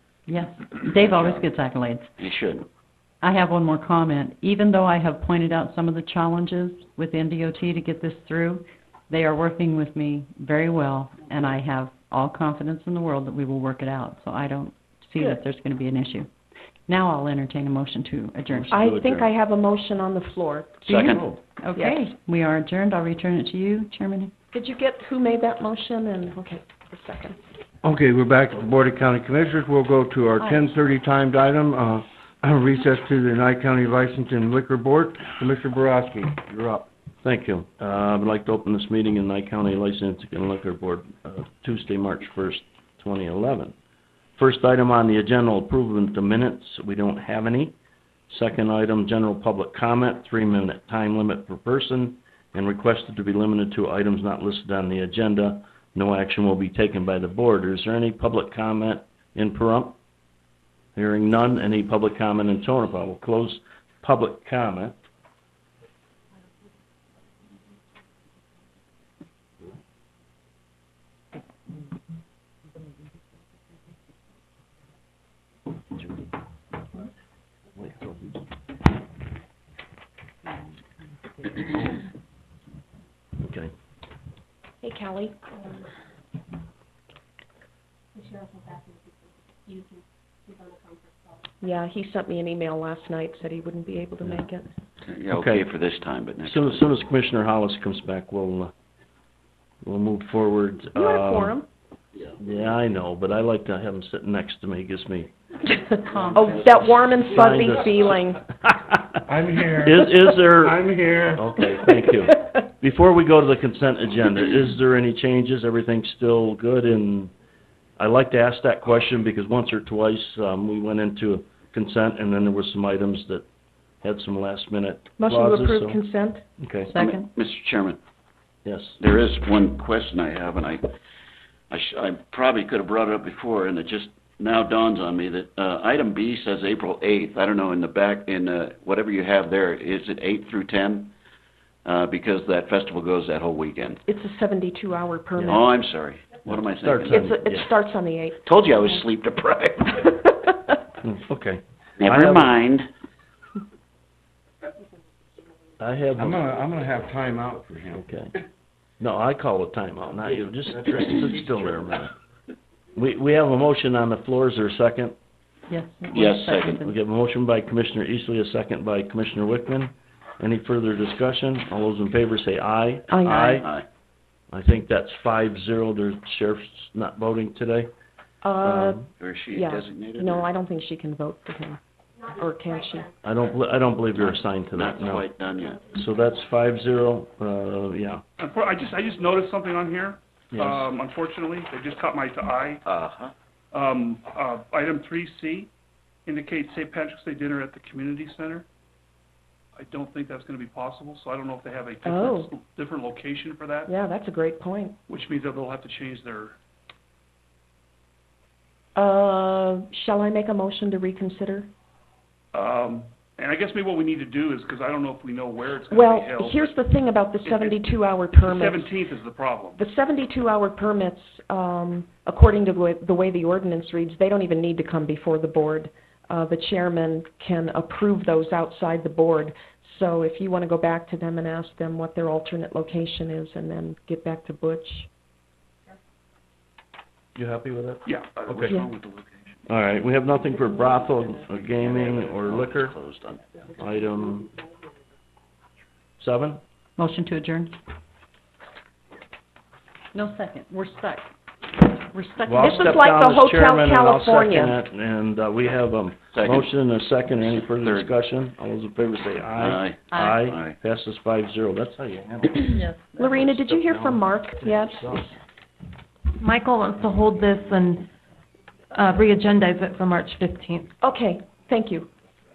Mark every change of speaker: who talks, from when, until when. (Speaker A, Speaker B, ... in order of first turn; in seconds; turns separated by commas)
Speaker A: 0.3-2.1, Speaker B: 0.8-1.5, Speaker B: 2.2-2.7, Speaker A: 3.2-16.3, Speaker A: 16.9-18.7, Speaker C: 18.5-19.3, Speaker D: 18.7-21.2, Speaker B: 20.9-21.4, Speaker A: 20.9-24.3, Speaker D: 21.8-22.0, Speaker D: 24.5-27.4, Speaker E: 27.8-36.9, Speaker C: 37.2-43.7, Speaker C: 44.4-47.7, Speaker C: 48.3-60.0, Speaker C: 60.9-65.0, Speaker C: 83.4-83.7, Speaker D: 84.8-85.4, Speaker D: 91.6-94.7, Speaker B: 95.0-96.8, Speaker C: 95.3-95.7, Speaker C: 96.4-98.7, Speaker C: 99.8-101.6, Speaker D: 100.9-101.7, Speaker C: 102.4-105.3, Speaker A: 106.0-106.7, Speaker D: 106.2-108.4, Speaker C: 106.8-117.3, Speaker E: 109.3-110.0, Speaker E: 110.6-111.4, Speaker C: 118.0-123.4, Speaker C: 124.0-126.0, Speaker D: 125.2-126.4, Speaker C: 126.6-126.9, Speaker A: 126.9-127.3, Speaker B: 127.0-128.0, Speaker C: 128.6-129.0, Speaker B: 129.0-130.8, Speaker B: 131.7-141.1, Speaker B: 141.8-144.0, Speaker D: 144.1-145.7, Speaker B: 145.4-147.3, Speaker C: 146.4-147.7, Speaker D: 147.1-148.4, Speaker B: 148.4-150.2, Speaker C: 151.0-152.5, Speaker B: 152.0-152.9, Speaker C: 155.8-156.4, Speaker E: 156.2-158.0, Speaker C: 157.9-158.3, Speaker C: 159.0-162.1, Speaker C: 162.9-165.1, Speaker A: 165.7-166.9, Speaker B: 166.1-166.8, Speaker C: 166.8-173.7, Speaker D: 173.1-173.6, Speaker B: 173.3-173.8, Speaker C: 174.5-177.9, Speaker D: 178.4-183.1, Speaker C: 178.6-179.1, Speaker B: 179.2-180.5, Speaker C: 183.2-185.3, Speaker B: 184.2-185.8, Speaker C: 185.8-188.2, Speaker F: 188.4-192.8, Speaker B: 192.8-193.3, Speaker F: 193.7-195.7, Speaker F: 196.2-198.6, Speaker F: 199.8-203.9, Speaker D: 202.1-202.5, Speaker D: 203.9-205.0, Speaker F: 205.1-206.6, Speaker D: 208.9-211.7, Speaker F: 212.5-216.7, Speaker D: 215.9-218.9, Speaker F: 217.4-217.8, Speaker F: 218.4-219.8, Speaker D: 219.8-235.1, Speaker C: 237.3-238.8, Speaker F: 238.1-238.4, Speaker B: 238.4-239.6, Speaker C: 239.7-243.0, Speaker B: 241.4-243.6, Speaker C: 243.8-244.5, Speaker C: 246.2-246.6, Speaker A: 247.0-247.8, Speaker A: 250.1-251.3, Speaker A: 251.8-253.1, Speaker C: 252.4-262.8, Speaker D: 252.6-254.8, Speaker B: 256.3-256.7, Speaker B: 257.4-258.1, Speaker B: 259.6-260.8, Speaker A: 260.1-260.4, Speaker A: 262.7-263.3, Speaker D: 263.2-265.1, Speaker C: 263.3-265.3, Speaker G: 266.4-268.1, Speaker G: 268.9-270.9, Speaker D: 271.0-272.1